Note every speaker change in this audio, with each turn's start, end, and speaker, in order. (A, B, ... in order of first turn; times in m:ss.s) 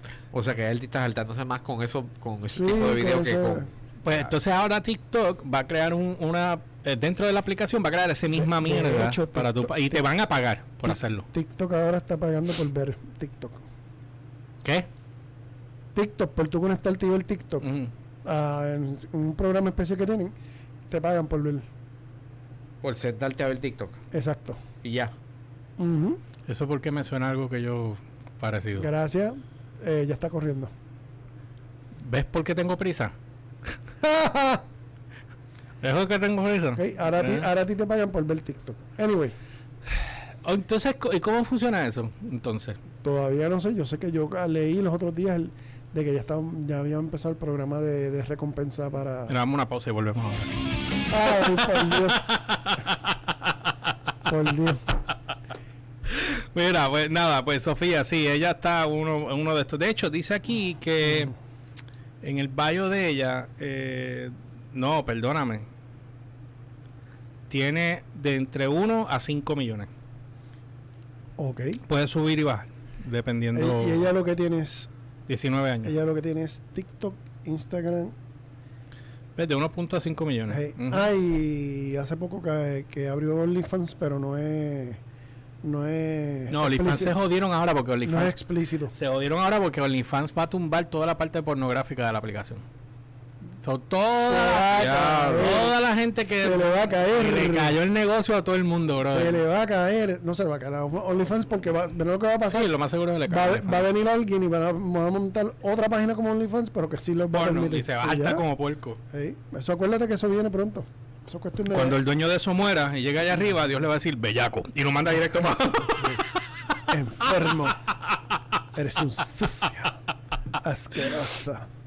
0:00.3-0:03.7 A
0:02.5-0:03.7 B
0:04.0-0:11.3 C
0:08.4-0:10.0 B
0:10.9-0:13.6 B
0:16.0-0:17.7 B
0:17.6-0:17.9 C
0:18.2-0:20.4 B
0:20.9-0:21.7 B
0:22.8-0:24.0 A
0:24.1-0:24.6 B
0:24.8-0:25.1 A
0:25.8-0:26.2 B
0:26.5-0:28.9 C
0:28.8-0:30.7 B
0:32.0-0:33.1 C
0:34.0-0:34.6 C
0:35.8-0:37.5 C
0:36.8-0:39.4 B
0:39.9-0:42.8 C
0:43.0-0:49.4 B
0:49.3-0:50.6 C
0:51.1-0:52.2 B
0:51.4-0:53.5 C
0:54.3-0:54.8 B
0:56.1-1:01.3 C
1:02.2-1:05.7 C
1:07.5-1:09.9 C
1:11.4-1:11.8 B
1:11.9-1:14.1 C
1:13.5-1:14.9 B
1:15.3-1:15.9 C
1:15.8-1:18.2 B
1:19.4-1:21.1 C
1:20.5-1:25.0 B
1:25.6-1:27.2 B
1:26.5-1:28.4 C
1:28.0-1:28.9 B
1:28.9-1:32.6 C
1:33.6-1:39.4 C
1:34.2-1:37.8 B
1:39.0-1:42.7 B
1:42.5-1:43.9 C
1:43.3-1:48.4 B
1:47.3-1:49.0 C
1:49.1-1:52.0 B
1:51.7-1:56.2 C
1:56.9-1:57.8 B
1:58.8-1:59.9 B
2:00.6-2:01.7 B